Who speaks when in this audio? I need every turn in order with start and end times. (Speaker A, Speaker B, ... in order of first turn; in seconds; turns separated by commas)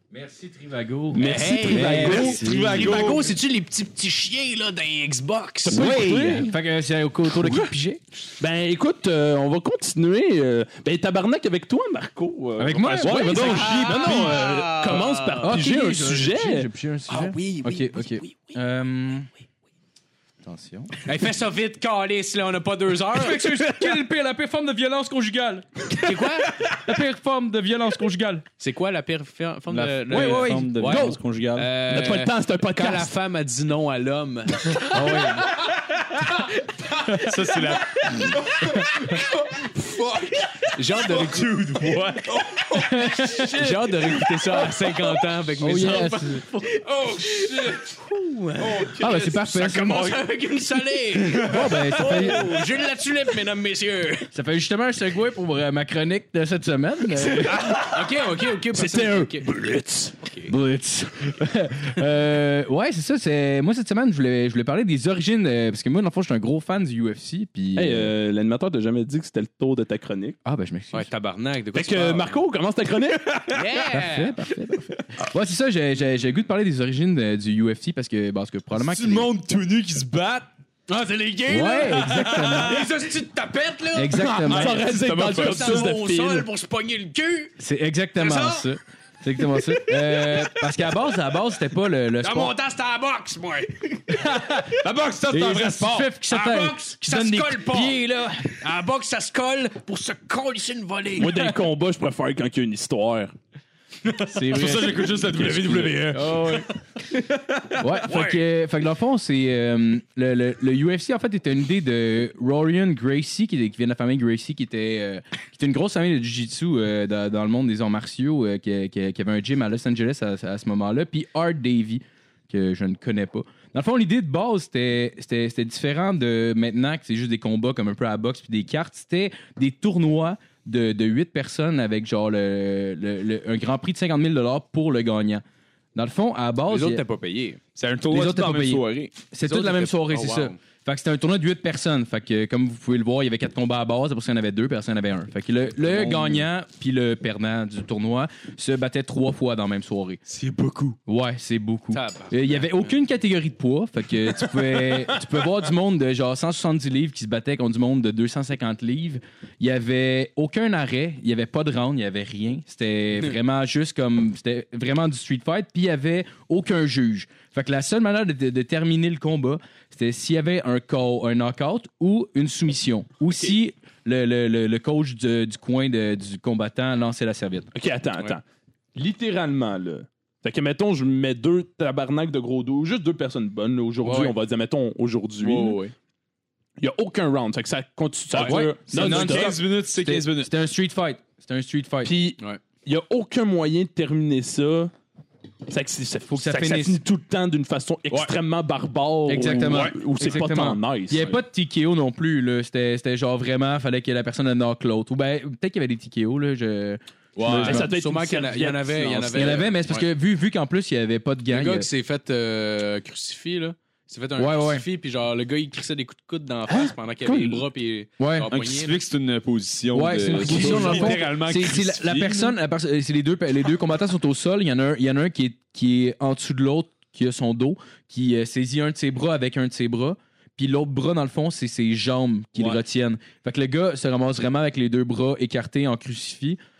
Speaker A: 0.1-3.2, Speaker B: 1.1-2.4, Speaker C: 1.2-6.0, Speaker D: 1.8-3.3, Speaker B: 5.7-6.6, Speaker A: 5.7-8.0, Speaker B: 7.3-7.7, Speaker B: 8.4-16.7, Speaker A: 12.6-14.2, Speaker D: 13.0-14.7, Speaker C: 13.3-15.6, Speaker A: 15.4-19.3, Speaker C: 17.1-18.6, Speaker A: 20.4-20.9, Speaker C: 21.0-23.5, Speaker A: 23.1-28.4, Speaker C: 25.9-26.6, Speaker C: 28.6-35.2, Speaker D: 29.7-31.7, Speaker A: 30.1-31.2, Speaker B: 31.9-33.1, Speaker A: 34.8-35.6, Speaker A: 37.1-37.4, Speaker D: 37.1-38.4, Speaker A: 38.1-38.4, Speaker B: 39.9-40.1, Speaker C: 40.7-41.6, Speaker D: 40.9-42.7, Speaker B: 42.5-44.2, Speaker A: 42.7-43.6, Speaker C: 43.4-54.3, Speaker A: 45.6-46.4, Speaker A: 49.0-50.2, Speaker D: 51.3-51.9, Speaker A: 51.4-52.6, Speaker A: 54.3-57.9, Speaker C: 57.2-59.6, Speaker B: 58.7-60.1, Speaker C: 60.2-60.5, Speaker A: 60.5-68.1, Speaker B: 67.8-70.4, Speaker A: 70.4-71.1, Speaker C: 70.9-72.4, Speaker B: 71.7-73.5, Speaker C: 73.5-74.4, Speaker A: 73.8-79.3, Speaker D: 78.7-80.5, Speaker C: 80.9-87.6, Speaker A: 81.5-82.9, Speaker D: 81.9-82.8, Speaker A: 83.9-84.8, Speaker B: 84.1-86.5, Speaker D: 84.5-85.9, Speaker A: 87.6-92.5, Speaker C: 88.2-88.7, Speaker C: 90.1-90.5, Speaker C: 92.2-94.2, Speaker A: 94.1-98.5, Speaker D: 94.7-96.1, Speaker C: 96.2-101.5, Speaker B: 101.2-103.3, Speaker D: 104.0-106.3, Speaker A: 104.3-105.5, Speaker B: 105.3-106.4, Speaker C: 105.7-106.7, Speaker A: 106.4-106.6, Speaker A: 107.8-135.4, Speaker A: 135.9-137.0, Speaker C: 136.7-137.6, Speaker D: 137.8-139.1, Speaker A: 138.1-150.2, Speaker C: 139.4-140.6, Speaker D: 146.0-146.3, Speaker D: 150.3-151.0, Speaker A: 151.1-177.7, Speaker C: 151.9-153.0, Speaker B: 154.6-155.2, Speaker B: 177.7-178.4, Speaker B: 179.0-185.8, Speaker C: 184.0-184.3, Speaker C: 185.4-185.9, Speaker B: 186.8-189.6, Speaker D: 188.3-190.5, Speaker A: 188.4-192.1, Speaker B: 192.0-194.9, Speaker B: 195.7-201.4, Speaker A: 196.3-197.0, Speaker A: 199.3-207.7, Speaker D: 199.4-200.5, Speaker D: 207.4-207.8, Speaker B: 207.5-209.6, Speaker C: 207.6-210.1, Speaker A: 209.3-211.9, Speaker C: 211.5-219.0, Speaker A: 214.4-214.8, Speaker A: 218.2-218.5, Speaker D: 218.5-222.6, Speaker A: 219.9-236.6, Speaker C: 220.3-221.2